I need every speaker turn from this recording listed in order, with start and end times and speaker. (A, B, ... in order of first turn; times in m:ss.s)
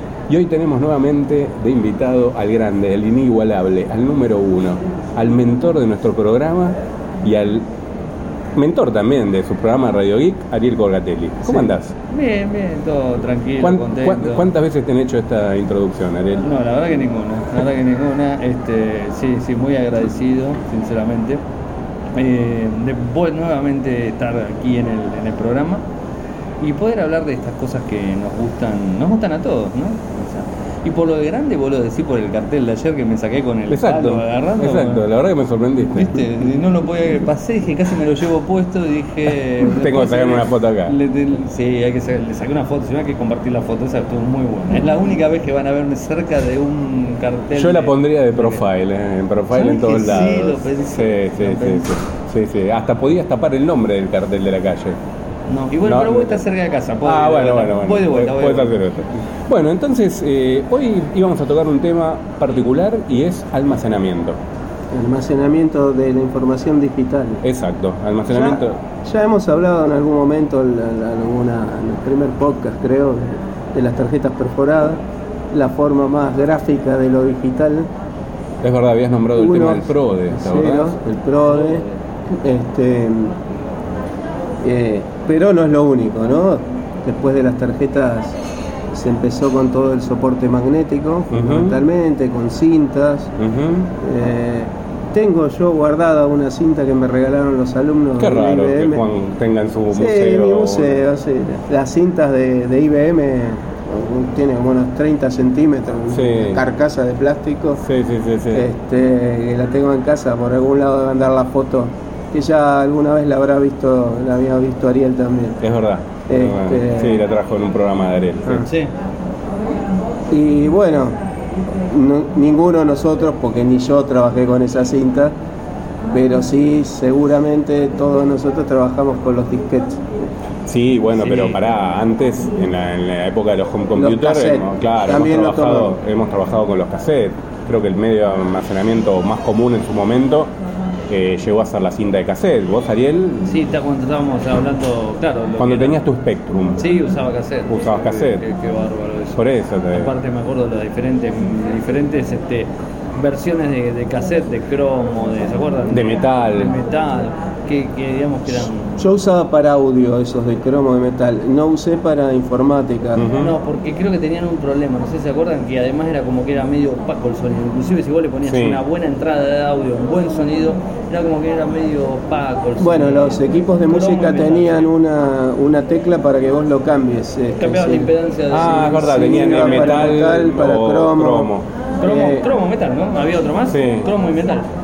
0:00.3-0:07.6 A
0:08.5-0:11.9 A
0:11.4-0:14.4 B
0:13.6-0:16.4 A
0:16.4-0:21.4 B
0:22.1-0:25.8 B
0:26.6-0:35.0 B
0:33.7-0:36.2 A
0:35.9-0:48.6 B
0:39.6-0:40.9 A
0:47.6-0:55.0 A
0:49.5-0:51.9 B
0:55.5-0:58.7 B
0:55.8-0:56.4 A
0:57.0-1:04.4 A
1:04.9-1:07.4 C
1:07.4-1:08.8 A
1:08.3-1:15.0 C
1:15.5-1:17.9 C
1:18.6-1:21.0 A
1:19.3-1:23.4 C
1:21.5-1:21.9 B
1:24.6-1:28.4 C
1:28.9-1:33.3 C
1:31.3-1:31.8 A
1:33.4-1:33.9 A
1:33.9-1:39.0 C
1:38.2-1:41.0 A
1:39.9-1:47.8 C
1:46.1-1:46.6 A
1:47.8-1:48.7 A
1:48.5-1:55.6 C
1:55.6-1:58.6 A
1:56.3-1:57.2 C
1:58.6-1:58.9 B
2:00.3-2:01.2 C
2:01.9-2:05.3 C
2:06.1-2:10.1 C
2:10.7-2:20.5 A
2:11.2-2:11.6 B
2:13.9-2:16.0 C
2:21.1-2:23.5 A
2:23.4-2:26.0 B
2:25.6-2:26.8 A
2:26.8-2:29.4 B
2:27.7-2:28.4 A
2:29.4-2:30.1 A
2:29.9-2:39.0 B
2:35.9-2:36.7 A
2:39.0-2:43.2 C
2:43.2-2:43.6 A
2:43.3-2:54.9 B
2:48.4-2:48.8 A
2:52.8-2:58.1 C
2:57.6-3:00.1 B
2:58.5-3:01.6 A
2:58.9-3:01.5 C
3:02.0-3:04.7 B
3:02.0-3:02.4 C
3:03.7-3:04.1 A